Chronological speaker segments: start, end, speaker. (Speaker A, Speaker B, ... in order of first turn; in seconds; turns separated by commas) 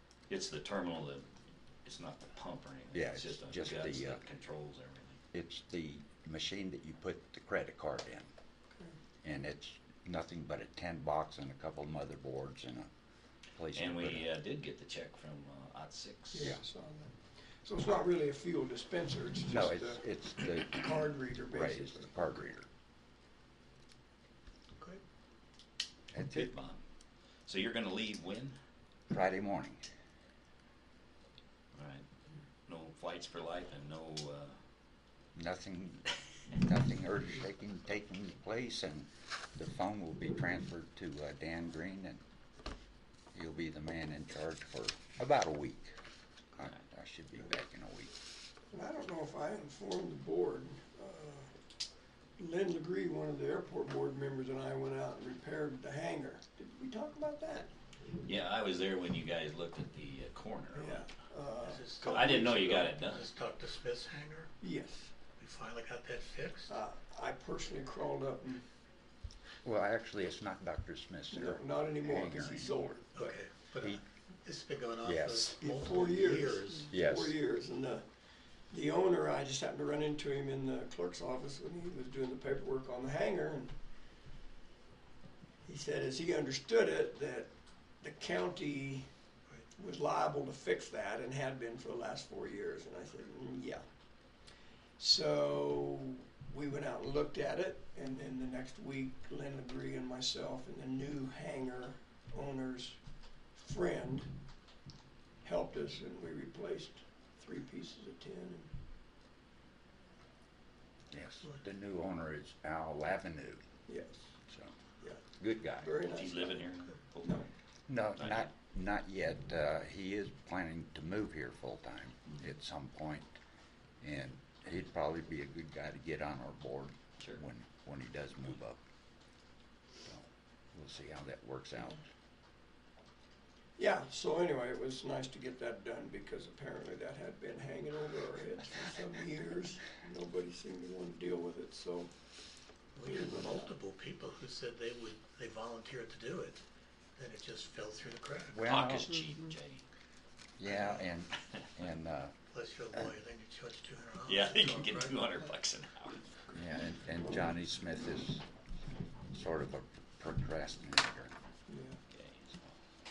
Speaker A: 0.3-1.2, Speaker A: 1.8-5.2, Speaker B: 2.9-4.2, Speaker B: 5.3-8.3, Speaker B: 9.2-12.9, Speaker B: 13.6-14.3, Speaker A: 13.7-16.6, Speaker C: 16.3-17.1, Speaker C: 17.6-22.5, Speaker B: 19.5-22.7, Speaker B: 26.1-26.5, Speaker A: 26.3-26.8, Speaker A: 27.4-28.6, Speaker B: 29.1-29.8, Speaker A: 31.7-32.0, Speaker A: 32.6-34.5, Speaker B: 35.3-42.2, Speaker B: 43.3-45.9, Speaker B: 46.5-48.1, Speaker C: 48.7-51.5, Speaker C: 52.4-57.7, Speaker A: 58.2-61.0, Speaker C: 60.7-62.9, Speaker D: 61.6-64.5, Speaker A: 62.0-63.3, Speaker C: 64.6-65.1, Speaker D: 65.4-66.7, Speaker C: 66.7-68.6, Speaker B: 69.6-72.7, Speaker C: 71.3-73.4, Speaker D: 73.1-76.9, Speaker B: 75.0-75.6, Speaker C: 75.6-78.0, Speaker B: 76.9-77.3, Speaker C: 78.7-83.7, Speaker C: 85.6-89.1, Speaker C: 89.7-93.8, Speaker C: 95.0-103.0, Speaker C: 103.6-104.3, Speaker C: 105.4-108.7, Speaker B: 111.1-113.6, Speaker C: 113.9-114.3, Speaker B: 114.5-114.8, Speaker B: 115.3-115.9, Speaker C: 115.8-116.7, Speaker A: 116.1-117.4, Speaker C: 117.2-117.5, Speaker B: 117.9-123.4, Speaker A: 118.2-118.5, Speaker B: 124.0-128.8, Speaker B: 130.0-132.0, Speaker C: 133.8-142.1, Speaker C: 142.9-143.7, Speaker D: 142.9-146.6, Speaker D: 147.2-148.6, Speaker B: 148.5-149.1, Speaker A: 148.6-149.8, Speaker B: 150.6-152.3, Speaker D: 150.6-151.1, Speaker D: 152.5-155.5, Speaker A: 154.2-156.2, Speaker B: 156.5-158.4, Speaker B: 159.3-161.3, Speaker C: 161.7-162.0, Speaker A: 162.1-162.6